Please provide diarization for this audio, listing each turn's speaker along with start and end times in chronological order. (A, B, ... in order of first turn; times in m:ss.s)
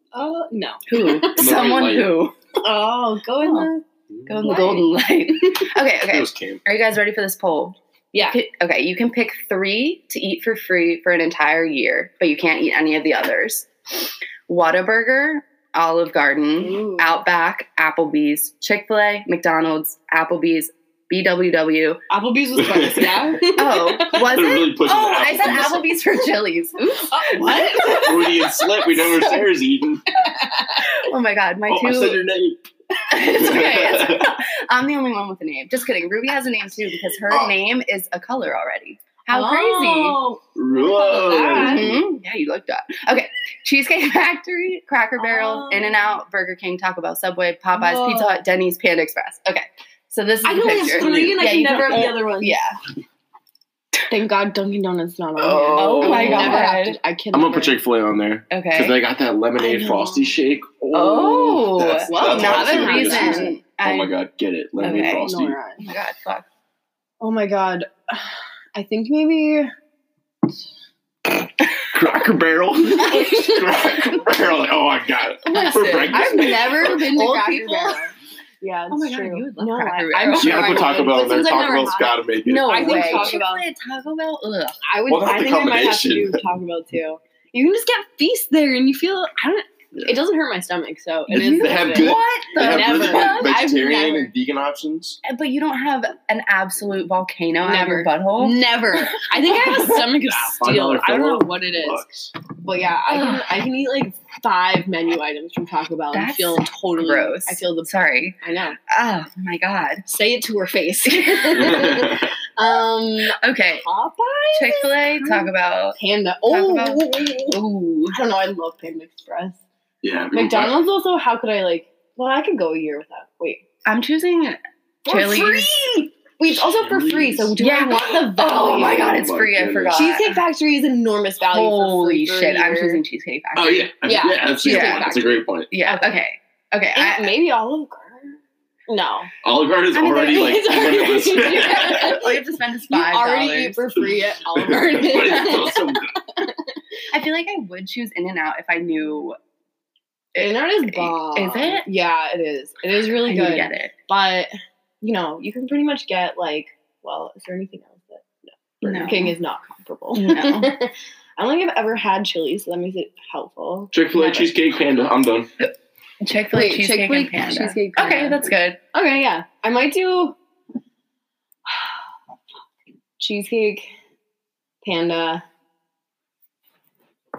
0:00.1-0:01.4 A
0:00.9-0:02.4 B
0:01.3-0:02.1 C
0:02.6-0:03.8 A
0:03.4-0:03.7 B
0:04.1-0:04.4 C
0:04.3-0:22.0 B
0:04.4-0:04.9 A
0:06.0-0:06.6 C
0:08.1-0:08.4 A
0:16.6-0:17.2 A
0:22.1-0:24.4 A
0:22.6-0:23.3 C
0:23.5-0:28.2 B
0:24.1-0:26.0 C
0:26.9-0:29.4 A
0:27.9-0:30.1 C
0:30.1-0:30.9 A
0:30.9-0:32.2 B
0:31.7-0:32.6 C
0:33.1-0:40.2 B
0:33.2-0:34.4 C
0:37.3-0:37.5 C
0:39.3-0:41.9 A
0:40.5-0:42.0 C
0:41.5-0:52.8 B
0:45.2-0:46.1 A
0:47.7-0:48.3 A
0:50.4-0:52.6 A
0:50.9-0:52.0 C
0:54.1-0:57.8 A
0:55.4-0:57.0 B
0:55.6-0:56.6 C
0:57.3-1:05.6 C
0:58.5-0:59.0 B
0:59.6-1:00.3 A
1:00.9-1:04.1 B
1:02.0-1:03.6 A
1:04.8-1:06.4 B
1:04.9-1:05.8 A
1:07.2-1:09.7 A
1:11.9-1:17.1 C
1:13.1-1:13.6 A
1:15.4-1:18.1 B
1:15.6-1:23.6 A
1:18.9-1:21.8 B
1:20.4-1:23.4 C
1:22.4-1:24.8 B
1:24.8-1:34.3 A
1:25.1-1:26.4 C
1:31.3-1:35.2 C
1:31.4-1:33.5 B
1:35.2-1:38.6 B
1:37.6-1:42.0 A
1:39.2-1:40.0 B
1:40.0-1:42.1 C
1:42.6-1:48.8 A
1:43.1-1:43.6 B
1:46.1-1:48.4 B
1:48.9-1:50.0 B
1:50.0-1:57.6 A
1:51.0-1:51.8 B
1:51.6-1:52.2 C
1:53.4-1:53.8 B
1:54.6-1:58.2 B
1:58.1-1:59.6 A
2:00.0-2:00.8 C
2:00.3-2:03.6 A
2:03.8-2:05.7 B
2:05.0-2:09.1 A
2:06.5-2:07.5 C
2:07.6-2:10.4 B
2:08.5-2:10.1 C
2:09.9-2:13.0 A
2:11.5-2:13.9 B
2:13.5-2:15.7 C
2:14.0-2:15.5 A
2:14.6-2:15.1 B
2:15.7-2:17.3 B
2:16.9-2:19.3 A
2:19.4-2:22.1 C
2:19.9-2:23.8 B
2:20.2-2:22.3 A
2:22.9-2:26.6 A
2:24.5-2:26.2 C
2:27.1-2:29.4 B
2:30.3-2:31.8 B
2:30.4-2:34.5 A
2:33.2-2:33.9 B
2:35.0-2:44.5 A
2:38.8-2:39.3 B
2:40.1-2:40.7 B
2:43.9-2:45.5 C
2:46.2-2:48.8 B
2:46.5-2:50.4 A
2:53.2-2:53.9 A
2:54.8-2:55.4 A